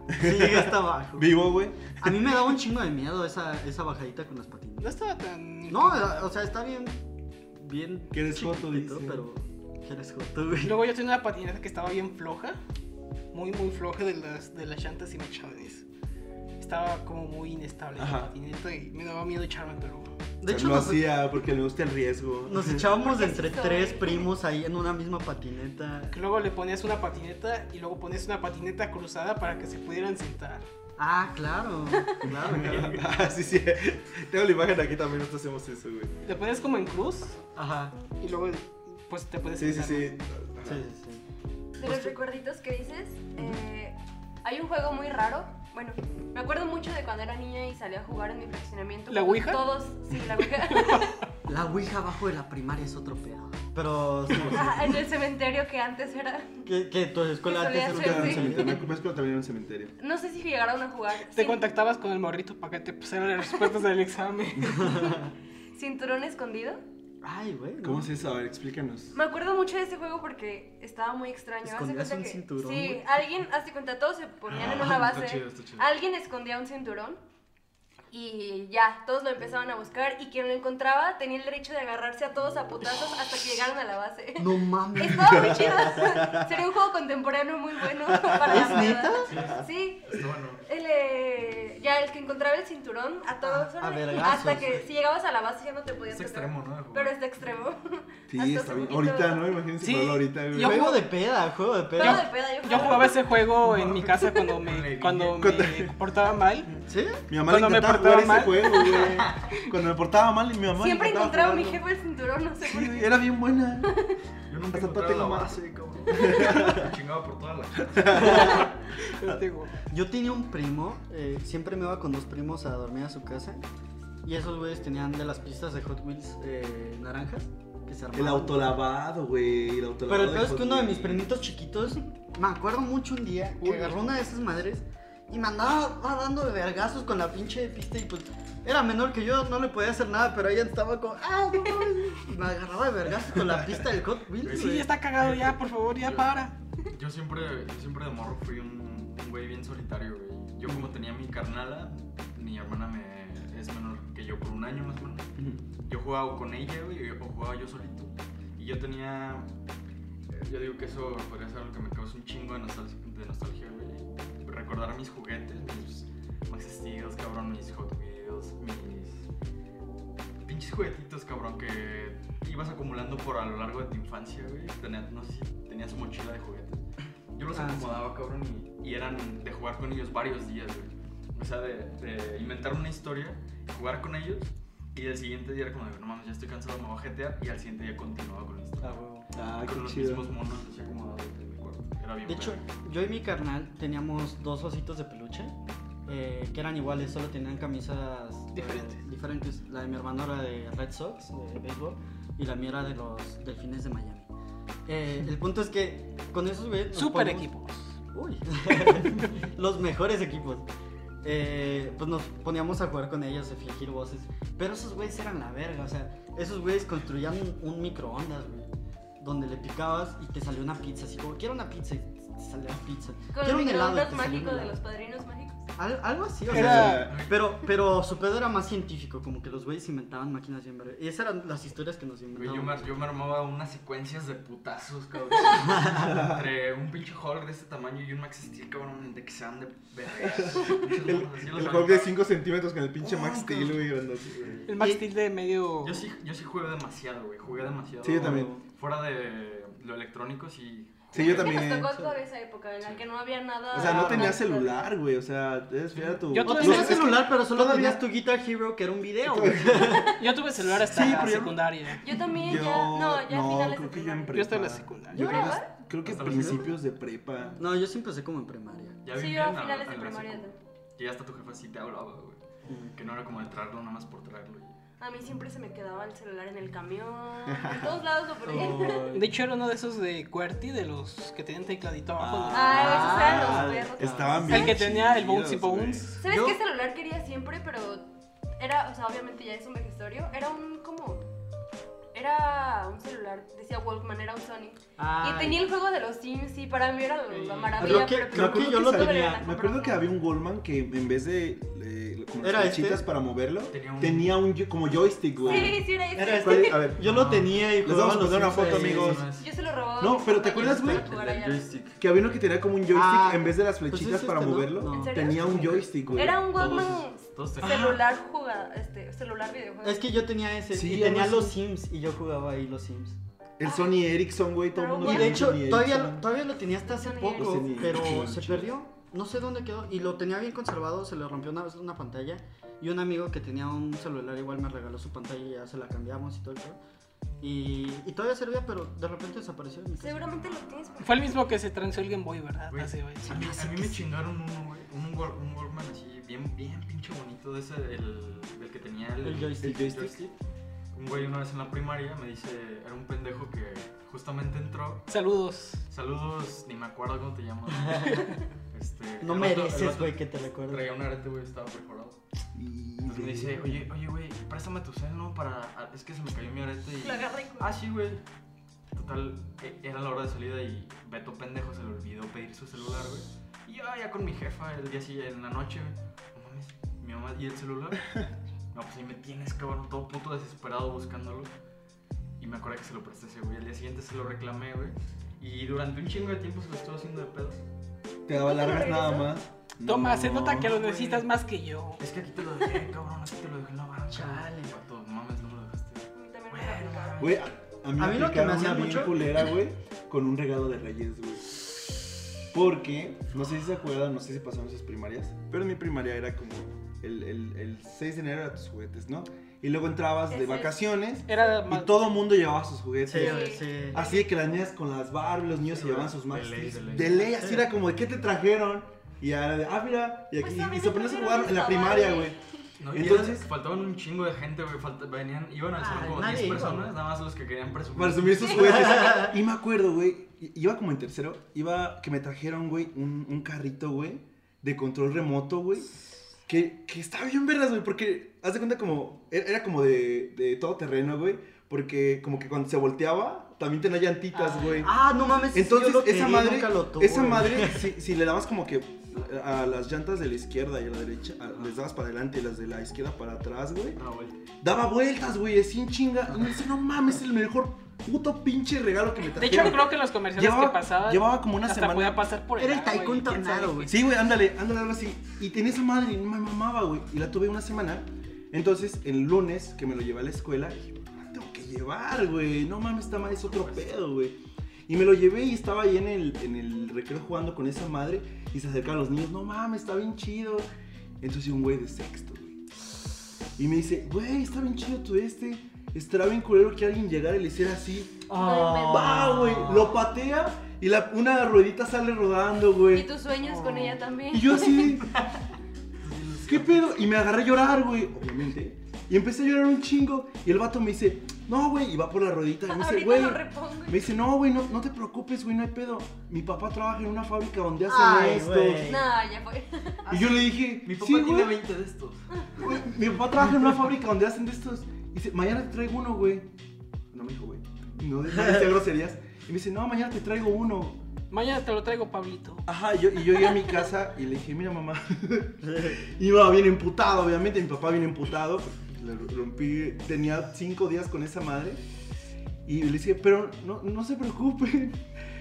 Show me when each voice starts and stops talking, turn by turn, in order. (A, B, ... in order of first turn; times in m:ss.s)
0:00.1-0:02.3 A
0:00.2-0:01.4 B
0:02.0-0:04.9 B
0:04.8-0:06.2 C
0:05.7-0:07.0 B
0:07.6-0:10.8 B
0:08.1-0:09.2 A
0:10.6-0:12.6 C
0:13.3-0:15.8 C
0:16.6-0:20.1 C
0:17.9-0:18.3 A
0:20.4-0:21.1 B
0:20.4-0:22.8 A
0:22.4-0:26.2 B
0:23.0-0:24.3 D
0:26.1-0:30.6 C
0:31.0-0:33.0 B
0:32.2-0:36.1 A
0:32.6-0:32.8 E
0:36.2-0:37.4 C
0:37.6-0:37.9 B
0:38.2-0:40.1 C
0:39.6-0:40.8 A
0:40.6-0:41.2 B
0:41.8-0:51.2 D
0:41.8-0:42.1 B
0:49.1-0:49.6 C
0:50.7-0:51.2 C
0:51.5-0:55.0 B
0:54.4-0:56.6 D
0:56.6-0:58.9 B
0:57.4-0:58.7 D
0:57.9-0:59.9 A
1:00.0-1:01.6 D
1:01.3-1:05.2 C
1:04.7-1:05.3 B
1:05.7-1:06.8 D
1:07.2-1:08.1 B
1:07.8-1:09.2 A
1:09.1-1:17.2 D
1:11.6-1:13.0 B
1:14.5-1:15.9 E
1:18.1-1:39.6 D
1:24.4-1:25.6 B
1:25.2-1:26.5 A
1:28.1-1:29.6 A
1:28.5-1:29.3 B
1:29.2-1:30.6 E
1:33.4-1:34.8 B
1:36.1-1:37.1 E
1:38.3-1:41.0 A
1:39.8-1:41.0 C
1:40.5-1:42.3 B
1:42.0-1:43.3 D
1:42.0-1:46.7 C
1:43.6-1:45.4 E
1:45.3-1:45.9 A
1:46.8-1:47.2 B
1:47.3-1:51.8 A
1:47.4-1:49.1 C
1:50.8-1:53.3 D
1:52.6-1:53.9 A
1:53.8-1:54.2 D
1:54.5-1:58.5 E
1:54.7-1:56.9 A
1:57.8-1:58.7 A
1:58.2-1:58.7 B
1:58.2-1:59.8 C
1:59.9-2:03.6 B
2:04.2-2:08.7 B
2:08.1-2:11.3 A
2:10.1-2:24.9 B
2:13.6-2:14.1 C
2:24.4-2:26.5 C
2:24.4-2:35.3 E
2:35.4-2:35.6 A
2:35.8-2:39.5 E
2:40.3-2:49.3 E
2:50.4-3:12.6 E
2:57.5-2:58.1 B
3:08.8-3:09.3 B
3:09.3-3:10.3 A
3:12.2-3:15.5 B
3:16.0-3:24.3 B
3:18.5-3:19.0 C
3:24.9-3:27.5 B
3:26.9-3:28.0 C
3:28.1-3:30.6 B
3:31.2-3:44.8 B
3:43.3-3:45.6 D
3:45.8-3:52.9 B
3:46.5-3:47.1 A
3:46.5-3:47.1 C
3:47.0-3:47.6 E
3:52.3-4:02.2 E
3:55.7-3:56.1 B
3:55.9-3:56.4 A
4:00.2-4:04.6 A
4:03.0-4:03.8 B
4:04.3-4:04.7 E
4:04.7-4:06.0 C
4:04.8-4:05.0 B
4:05.8-4:11.8 E
4:08.0-4:08.5 A
4:08.1-4:08.6 B
4:11.1-4:11.9 A
4:11.2-4:14.9 D
4:12.8-4:13.0 E
4:13.7-4:18.0 A
4:13.8-4:14.3 B
4:15.9-4:16.2 E
4:16.3-4:17.1 C
4:16.4-4:20.2 B
4:19.2-4:20.1 A
4:20.2-4:22.2 C
4:20.8-4:27.6 A
4:22.0-4:24.3 D
4:24.3-4:25.5 C
4:25.1-4:25.6 B
4:25.1-4:25.7 D
4:26.0-4:26.8 E
4:27.6-4:29.0 B
4:29.0-4:32.4 E
4:29.1-4:30.6 D
4:32.7-4:32.9 B
4:32.9-4:34.8 E
4:35.0-4:39.1 D
4:37.5-4:38.0 A
4:38.4-4:39.3 B
4:39.1-4:43.2 C
4:42.2-4:46.0 A
4:42.5-4:44.8 D
4:42.7-4:44.4 B
4:44.4-4:46.2 C
4:46.2-4:51.2 D
4:46.3-4:46.6 B
4:52.1-5:00.1 D
4:55.0-4:55.7 B
4:57.3-4:57.6 C
4:57.8-5:09.3 A
4:57.8-4:59.4 B
5:02.4-5:03.1 B
5:03.7-5:04.4 E
5:05.4-5:06.9 D
5:05.5-5:09.2 B
5:07.0-5:07.5 E
5:08.5-5:09.5 E
5:09.4-5:11.7 D
5:10.0-5:11.1 A
5:10.5-5:12.0 B
5:12.0-5:17.0 A
5:12.9-5:16.0 B
5:14.8-5:20.0 D
5:16.4-5:18.0 E
5:17.6-5:18.0 A
5:19.8-5:23.2 B
5:20.7-5:21.6 A
5:23.6-5:26.2 A
5:23.6-5:24.0 D
5:24.7-5:25.5 D
5:25.0-5:36.8 B
5:26.8-5:28.0 D
5:27.4-5:28.7 A
5:37.4-5:40.4 B
5:40.0-5:41.1 D
5:40.3-5:41.2 E
5:41.0-5:43.5 C
5:42.7-5:50.3 E
5:43.2-5:44.0 B
5:49.2-5:50.1 B
5:49.6-5:50.1 A
5:50.9-5:55.1 E
5:55.1-5:55.8 C
5:55.9-6:02.2 E
5:57.7-5:58.3 B
5:59.2-6:00.8 B
6:02.5-6:03.8 A
6:03.0-6:08.2 E
6:07.0-6:07.7 D
6:08.9-6:18.1 E
6:18.7-6:21.5 E
6:22.4-6:27.6 E
6:28.3-6:30.8 A
6:28.3-6:29.3 D
6:29.8-6:32.0 C
6:30.8-6:31.2 E
6:32.0-6:37.4 E
6:34.1-6:34.8 B
6:36.1-6:37.3 D
6:37.2-6:41.6 A
6:38.0-6:39.5 B
6:42.5-7:03.5 A
6:50.3-6:50.7 D
6:51.2-6:52.0 C
6:53.0-6:54.0 B
6:53.1-6:54.6 D
6:55.6-6:57.4 E
6:57.3-6:57.6 B
7:00.4-7:02.4 D
7:02.8-7:09.0 E
7:03.0-7:03.3 B
7:05.8-7:07.0 B
7:07.9-7:15.9 A
7:08.4-7:08.9 D
7:08.6-7:09.3 B
7:16.5-7:24.9 A
7:24.4-7:27.9 B
7:25.5-7:34.0 A
7:34.0-7:34.3 E
7:34.6-7:42.3 A
7:39.3-7:44.0 C
7:42.6-7:44.0 B
7:43.9-8:00.7 A
7:53.4-7:53.9 E
8:01.2-8:02.6 A
8:03.6-8:13.1 A
8:08.3-8:09.9 B
8:08.4-8:09.4 D
8:12.9-8:15.0 D
8:13.4-8:14.0 B
8:14.3-8:15.2 A
8:16.0-8:16.8 E
8:16.4-8:29.0 A
8:22.7-8:24.0 D
8:27.9-8:29.1 B
8:28.8-8:30.1 D
8:30.1-8:32.2 E
8:30.1-8:31.6 A
8:32.6-8:36.5 A
8:37.1-8:41.0 A
8:41.3-8:42.6 C
8:42.6-8:51.8 A
8:45.6-8:46.0 B
8:52.6-8:55.0 A